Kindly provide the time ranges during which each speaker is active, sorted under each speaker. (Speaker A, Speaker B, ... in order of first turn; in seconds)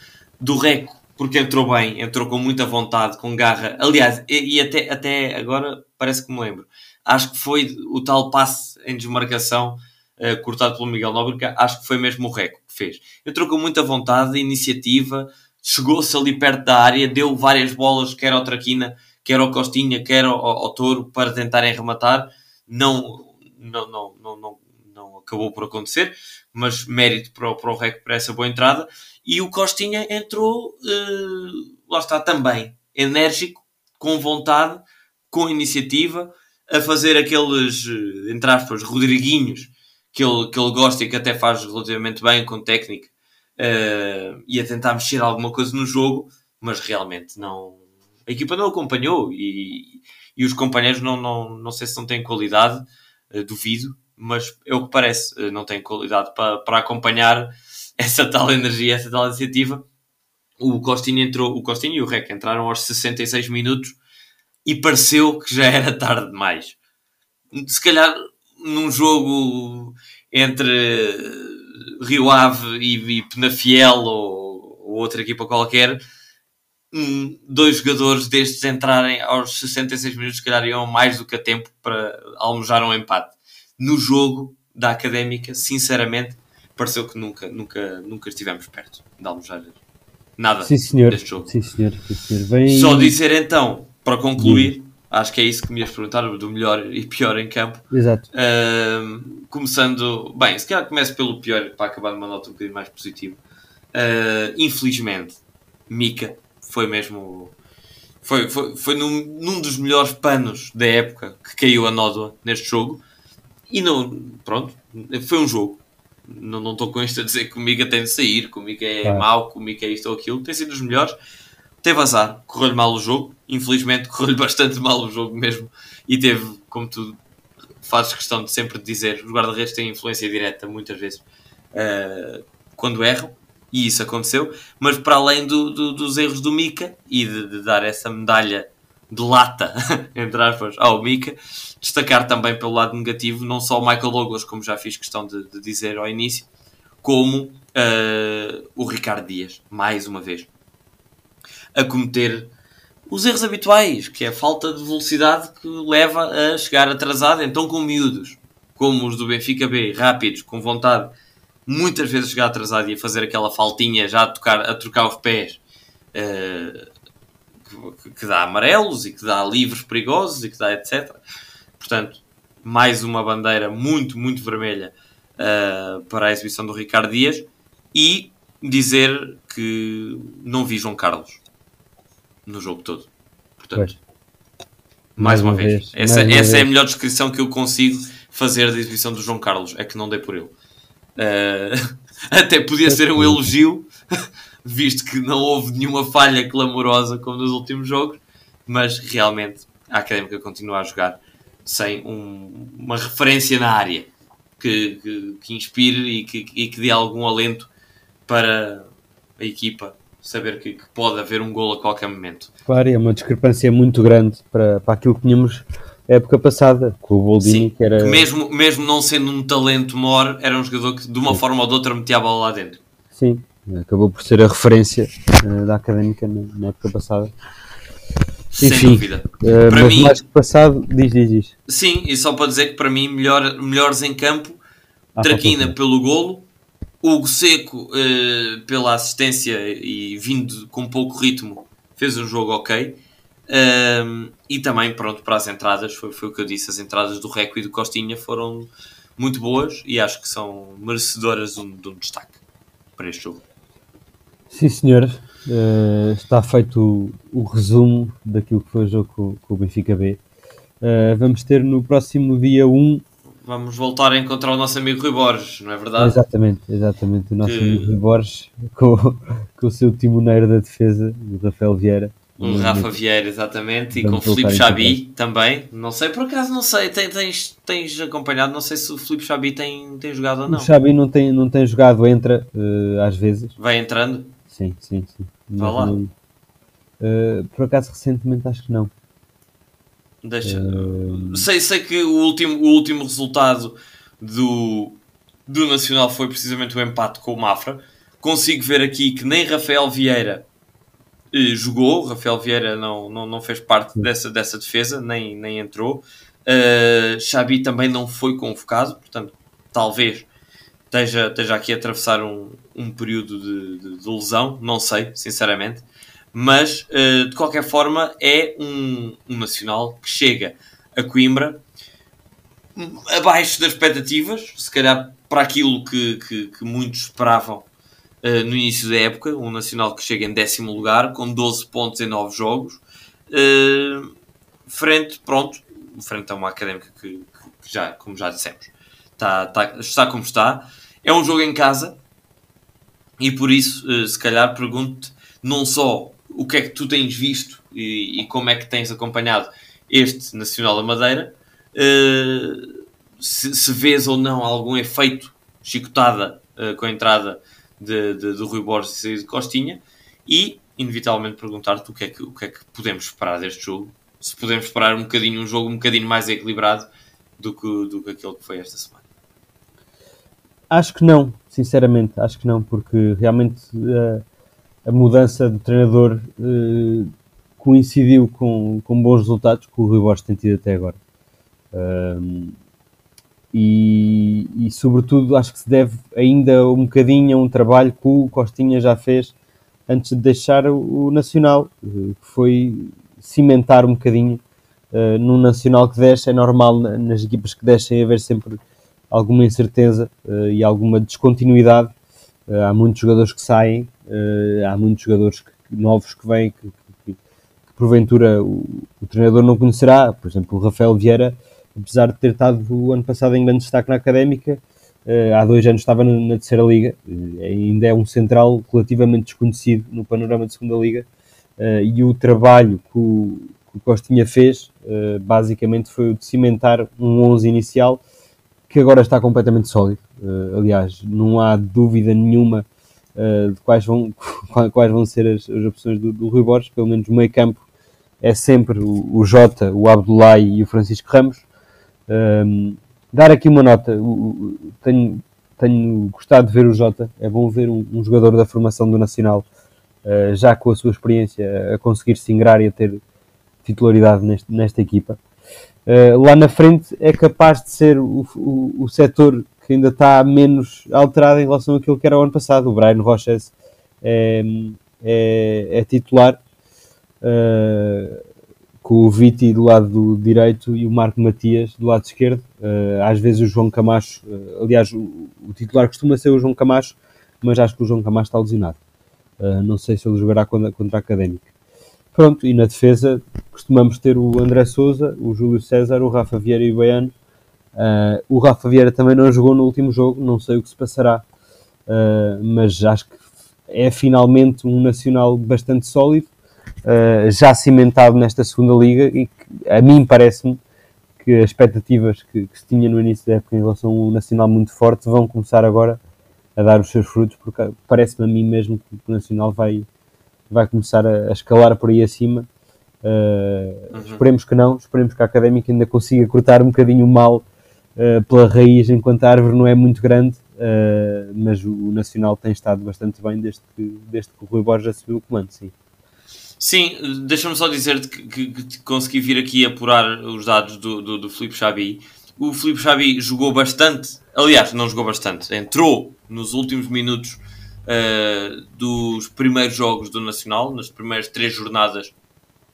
Speaker A: 0.4-59.8, 60.6-64.0, 64.7-66.8, 67.5-76.0, 76.9-89.8, 90.4-91.5, 92.7-103.4, 103.9-107.5, 108.2-113.0, 113.7-121.2, 121.8-127.2, 127.8-146.5, 147.0-150.5, 151.7-152.5, 153.1-161.1, 161.7-165.6, 166.1-166.9, 167.7-171.2, 171.8-181.4, 182.4-183.1, 183.6-184.0, 185.2-190.5, 191.2-191.8, 192.3-193.9, 194.6-207.7, 208.3-212.5, 217.4-222.8, 228.5-230.2, 231.7-234.6, 235.2-236.4, 237.0-252.4, 253.0-253.4, 263.4-266.1, 267.4-268.0, 272.4-280.7, 283.6-284.4, 285.6-285.9, 290.2-300.4, 301.3-310.3, 310.9-321.6, 322.8-327.7, 328.2-334.1, 334.7-342.0, 343.2-352.7, 353.2-366.9, 367.4-369.0, 513.9-514.2, 526.6-542.1
Speaker B: 90.6-93.1, 94.4-94.7, 97.9-98.2, 185.2-186.7, 192.9-193.4, 212.7-218.2, 223.1-227.3, 228.6-231.5, 235.2-235.7, 254.5-260.2, 260.8-263.0, 266.0-272.9, 273.9-275.0, 280.5-283.5, 284.5-286.1, 287.0-288.9, 290.4-291.5, 370.7-374.2, 374.9-381.0, 381.7-382.5, 383.5-389.3, 389.9-398.6, 399.1-401.9, 402.5-407.2, 407.7-421.1, 421.6-428.0, 428.7-432.6, 433.1-437.6, 438.2-441.4, 442.1-449.4, 450.0-453.0, 453.6-455.2, 455.9-466.4, 467.2-468.2, 468.8-478.8, 479.4-481.5, 482.1-487.1, 487.7-491.2, 491.9-496.3, 496.9-500.6, 501.2-506.0, 506.6-509.9, 510.5-512.5, 513.0-517.4, 518.0-525.7